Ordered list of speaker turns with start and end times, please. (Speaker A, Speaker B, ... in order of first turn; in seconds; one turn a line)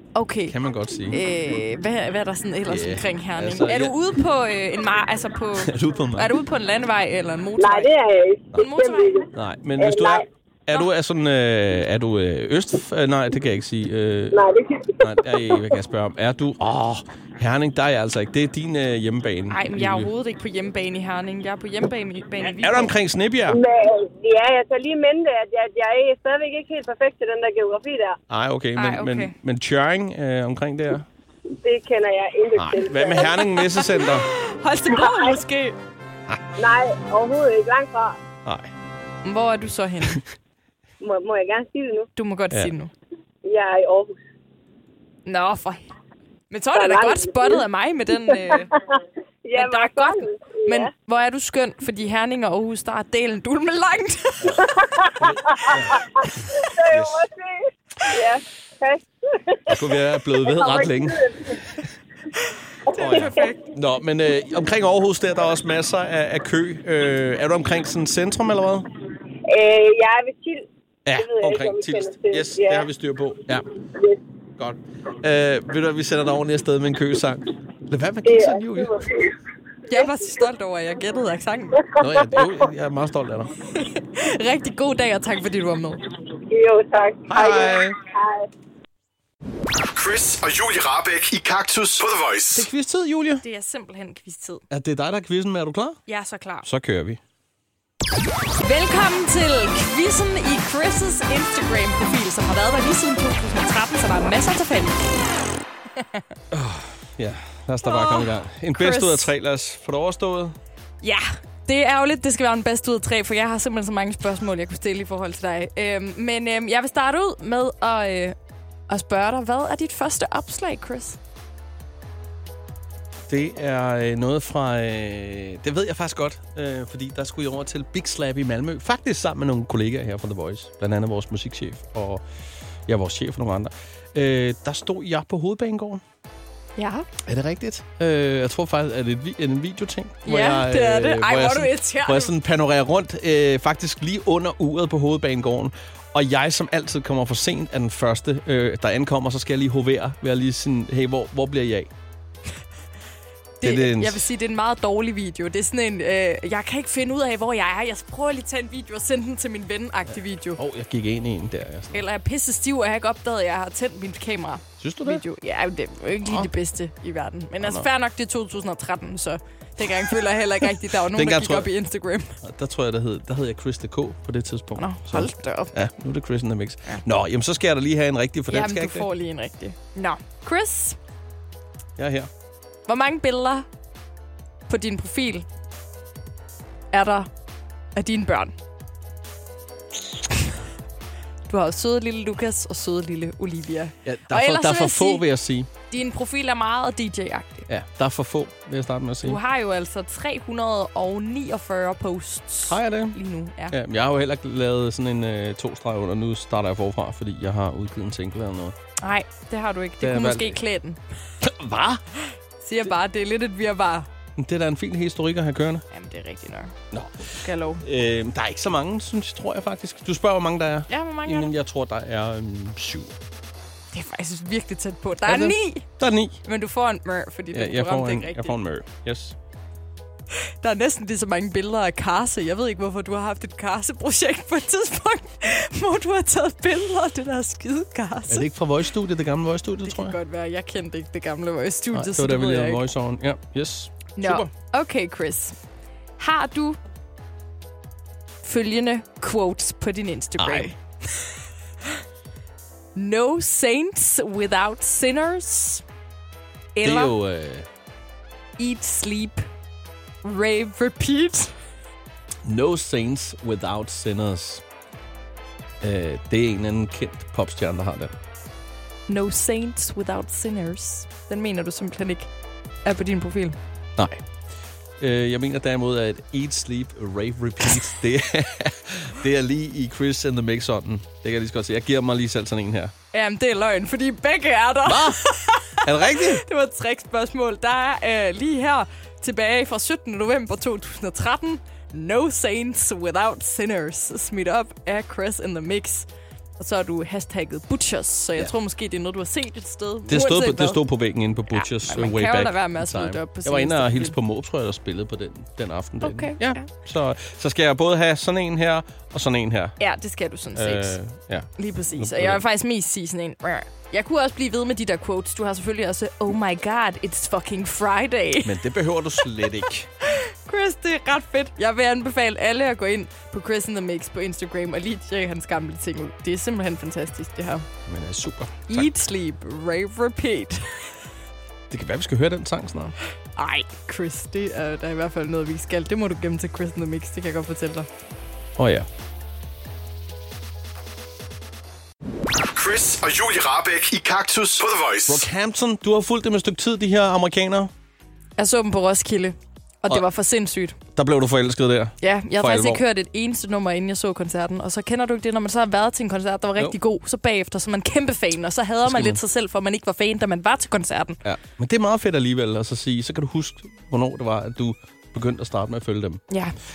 Speaker A: 0.1-0.5
Speaker B: 0.5-1.2
Speaker A: 1.1-7.9
Speaker B: 2.7-3.9
Speaker B: 5.6-6.3
Speaker C: 7.6-10.2
Speaker A: 8.5-9.2
Speaker B: 9.3-14.4
Speaker C: 14.3-15.6
Speaker B: 15.0-20.1
Speaker A: 19.5-22.9
Speaker B: 22.4-23.6
Speaker C: 23.5-28.2
Speaker B: 28.3-31.1
Speaker A: 28.8-29.3
Speaker C: 31.6-33.4
Speaker B: 32.5-34.3
Speaker A: 33.5-35.8
Speaker C: 34.9-35.4
Speaker C: 36.6-38.2
Speaker B: 38.5-38.7
Speaker A: 39.2-40.2
Speaker C: 41.0-42.1
Speaker A: 42.1-42.9
Speaker C: 43.4-44.2
Speaker A: 45.2-45.8
Speaker A: 46.5-48.7
Speaker C: 46.7-47.6
Speaker C: 48.3-48.8
Speaker C: 49.4-50.9
Speaker A: 49.5-54.6
Speaker C: 54.6-61.5
Speaker B: 55.2-56.0
Speaker B: 56.9-57.2
Speaker B: 59.7-61.3
Speaker A: 62.9-63.6
Speaker C: 63.0-63.5
Speaker B: 63.0-68.9
Speaker C: 69.5-72.9
Speaker B: 71.0-73.6
Speaker B: 74.6-79.0
Speaker C: 78.2-79.3
Speaker A: 79.9-81.8
Speaker B: 82.0-83.5
Speaker C: 82.0-82.4
Speaker A: 83.8-86.0
Speaker C: 86.5-88.5
Speaker B: 87.3-88.0
Speaker D: 89.8-92.7
Speaker B: 92.5-93.4
Speaker A: 93.4-94.6
Speaker B: 94.7-96.0
Speaker A: 96.1-96.7
Speaker B: 96.6-97.2
Speaker A: 98.6-105.1
Speaker A: 106.0-106.2
Speaker B: 106.5-110.5
Speaker A: 107.8-109.3
Speaker A: 111.0-118.3
Speaker A: 118.9-121.2
Speaker B: 123.3-132.2
Speaker B: 132.9-136.0
Speaker A: 136.8-137.1
Speaker B: 137.2-151.9
Speaker A: 140.2-142.3
Speaker A: 153.6-160.6
Speaker B: 153.6-154.3
Speaker B: 160.6-162.0
Speaker A: 161.9-172.4
Speaker B: 164.8-165.2
Speaker B: 167.6-167.8
Speaker B: 171.1-171.7
Speaker B: 172.4-179.1
Speaker A: 174.8-175.7
Speaker A: 178.5-181.0
Speaker B: 182.0-182.3
Speaker A: 182.9-183.7
Speaker A: 184.7-185.4
Speaker A: 186.9-187.3
Speaker A: 187.9-188.5
Speaker A: 191.5-195.2
Speaker B: 194.0-195.7
Speaker A: 195.9-197.7
Speaker B: 197.7-199.4
Speaker A: 199.2-203.7
Speaker B: 202.7-203.2
Speaker B: 203.7-208.7
Speaker A: 209.0-211.0
Speaker B: 210.0-210.6
Speaker B: 211.4-212.0
Speaker A: 212.6-214.1
Speaker B: 214.4-215.8
Speaker A: 215.9-216.7
Speaker B: 216.9-223.1
Speaker A: 217.4-217.8
Speaker A: 220.9-221.5
Speaker A: 223.9-225.8
Speaker B: 225.3-226.4
Speaker A: 226.4-228.6
Speaker B: 227.5-229.3
Speaker A: 230.6-238.5
Speaker B: 238.3-240.2
Speaker A: 239.8-242.8
Speaker B: 241.9-244.5
Speaker A: 244.2-245.6
Speaker A: 246.2-246.8
Speaker A: 248.4-251.3
Speaker B: 250.4-250.7
Speaker A: 252.9-255.8
Speaker A: 256.7-257.1
Speaker B: 256.8-257.6
Speaker A: 258.6-259.4
Speaker A: 260.2-261.5
Speaker B: 262.4-264.6
Speaker B: 265.8-268.1
Speaker A: 269.1-272.3
Speaker A: 272.8-273.6
Speaker B: 274.0-274.2
Speaker B: 275.0-282.9
Speaker A: 283.1-296.1
Speaker B: 284.9-285.2
Speaker B: 285.8-286.4
Speaker A: 296.6-300.8
Speaker B: 300.1-309.8
Speaker A: 301.5-304.1
Speaker A: 306.0-306.7
Speaker A: 309.8-311.0
Speaker B: 310.5-312.4
Speaker A: 311.6-318.6
Speaker B: 318.4-319.9
Speaker A: 320.2-327.6
Speaker B: 327.9-328.9
Speaker A: 328.7-330.9
Speaker B: 331.7-332.9
Speaker A: 333.4-337.9
Speaker B: 338.6-338.9
Speaker D: 342.3-345.3
Speaker B: 345.1-347.7
Speaker A: 348.4-350.8
Speaker B: 350.9-352.8
Speaker A: 352.0-361.2
Speaker B: 358.8-359.2
Speaker B: 361.2-366.2